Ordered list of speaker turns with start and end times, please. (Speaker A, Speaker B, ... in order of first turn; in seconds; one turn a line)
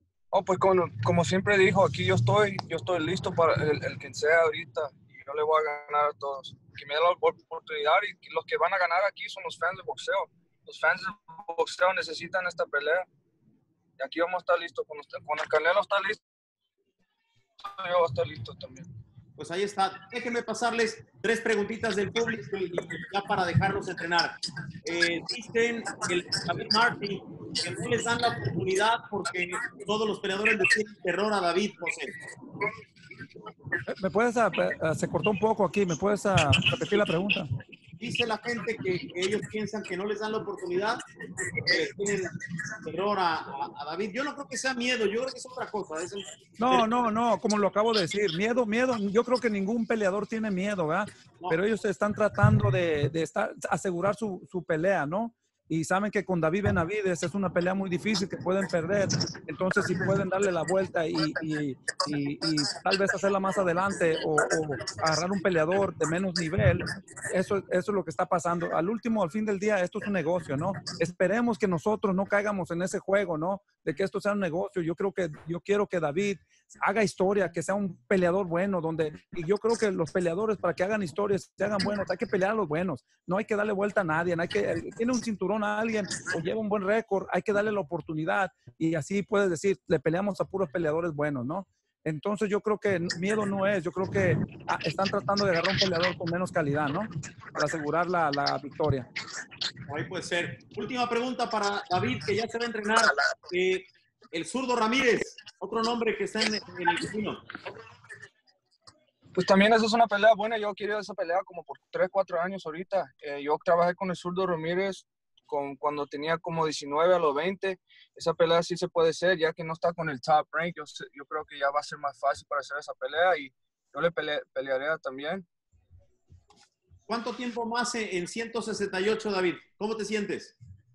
Speaker A: 0.3-13.0
Speaker A: 14.0-16.2
Speaker A: 17.8-18.9
Speaker B: 19.4-32.1
Speaker C: 33.9-37.5
Speaker B: 38.0-41.0
Speaker B: 41.5-46.9
Speaker C: 46.6-99.1
Speaker B: 99.9-107.4
Speaker A: 109.3-125.4
Speaker B: 127.1-130.5